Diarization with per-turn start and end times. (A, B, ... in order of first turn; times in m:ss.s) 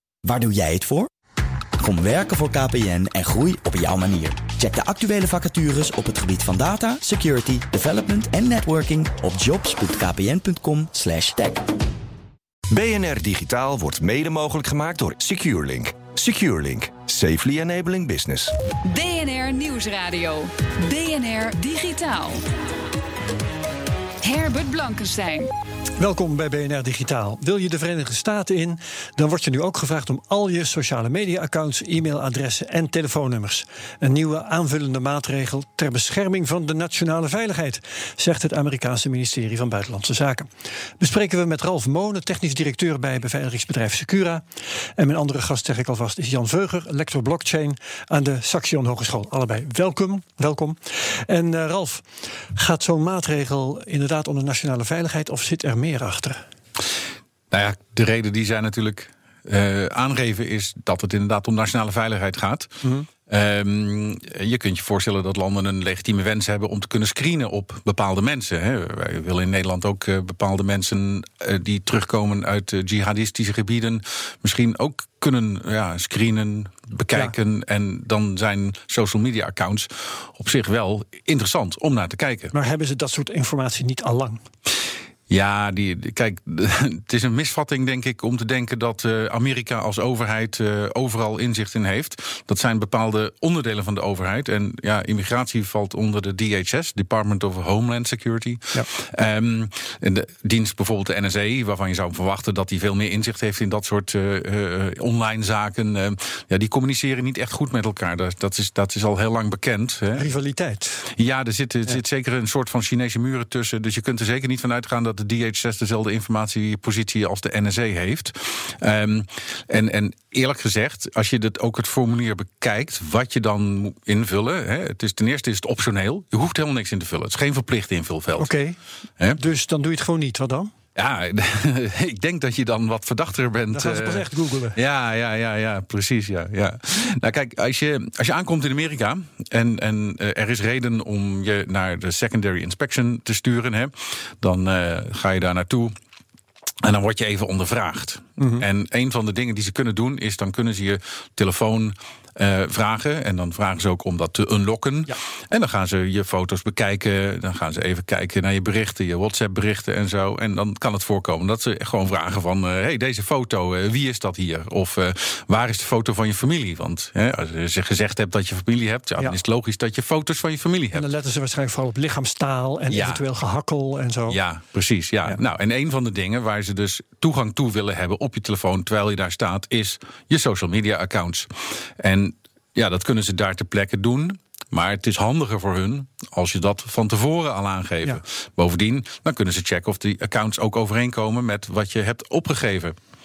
0:00.2-0:01.1 A
0:01.8-0:11.7 A
0:12.7-0:18.5 B
0:18.8-0:22.4 C
0:24.2-0:25.5 C
0:26.0-0:40.5 D
0:41.0-0:44.4 D
0:45.0-0:56.4 D
0:57.5-1:22.5 E
1:02.8-1:03.1 D
1:22.5-1:24.4 D
1:25.3-1:50.3 E
1:50.2-1:51.0 D
1:51.1-2:08.5 E
2:08.4-2:08.8 D
2:09.4-2:10.7 D
2:10.9-2:25.9 E
2:13.7-2:14.8 D
2:26.8-2:51.1 E
2:28.4-2:28.6 D
2:50.9-2:54.4 D
2:52.9-2:53.2 E
2:54.3-3:13.0 E